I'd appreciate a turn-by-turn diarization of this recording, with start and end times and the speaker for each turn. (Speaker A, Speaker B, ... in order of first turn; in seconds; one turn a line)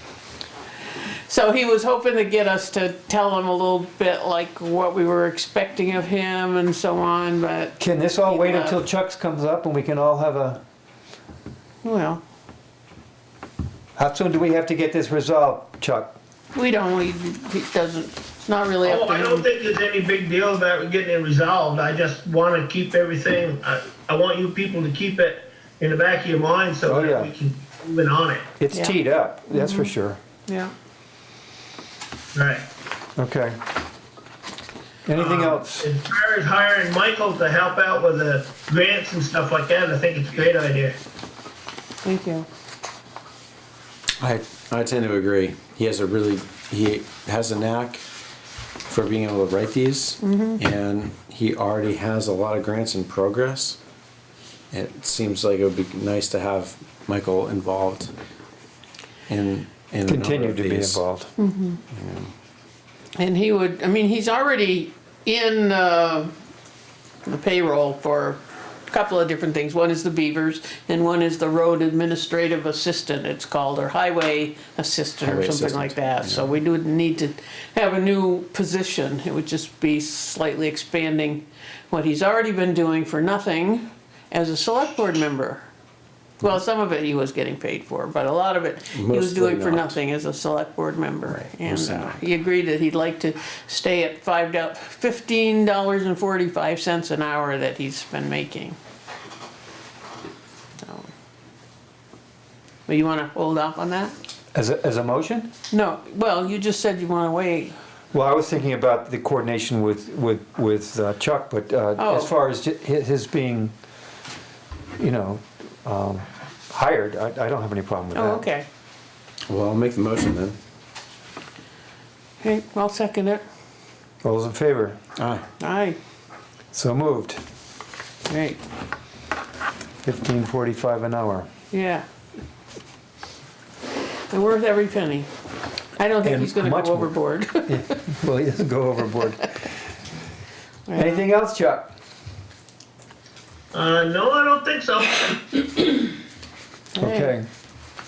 Speaker A: 1.3-8.8
Speaker B: 7.8-10.6
Speaker A: 11.8-12.2
Speaker B: 14.0-16.1
Speaker A: 16.5-19.4
Speaker C: 18.8-28.5
Speaker B: 26.9-27.3
Speaker B: 28.6-30.2
Speaker A: 29.5-29.9
Speaker A: 30.5-30.7
Speaker C: 32.3-32.6
Speaker B: 33.2-33.6
Speaker B: 35.1-35.9
Speaker C: 35.1-41.0
Speaker A: 42.0-42.5
Speaker D: 44.2-48.0
Speaker D: 48.9-53.8
Speaker A: 50.2-50.6
Speaker D: 54.7-58.1
Speaker D: 59.3-61.0
Speaker B: 60.1-61.3
Speaker A: 61.4-61.8
Speaker D: 61.9-62.3
Speaker A: 63.2-66.3
Speaker A: 67.2-85.7
Speaker D: 75.2-76.5
Speaker A: 86.4-98.8
Speaker D: 88.9-90.0
Speaker D: 91.3-92.2
Speaker A: 100.8-101.1
Speaker A: 102.9-104.1
Speaker B: 104.5-105.5
Speaker A: 105.7-107.7
Speaker B: 108.1-113.7
Speaker A: 112.0-112.3
Speaker B: 115.0-118.5
Speaker A: 118.2-118.7
Speaker D: 119.5-120.6
Speaker A: 122.4-123.4
Speaker B: 124.2-125.0
Speaker D: 125.2-125.4
Speaker A: 125.6-126.0
Speaker B: 126.7-127.4
Speaker A: 128.3-128.6
Speaker B: 130.0-131.5
Speaker A: 131.7-132.1
Speaker A: 134.3-135.3
Speaker A: 136.0-137.8
Speaker B: 136.2-137.1
Speaker B: 137.7-139.5
Speaker A: 140.9-141.2
Speaker B: 140.9-141.9
Speaker C: 143.7-145.8
Speaker A: 147.0-147.3
Speaker B: 147.0-147.5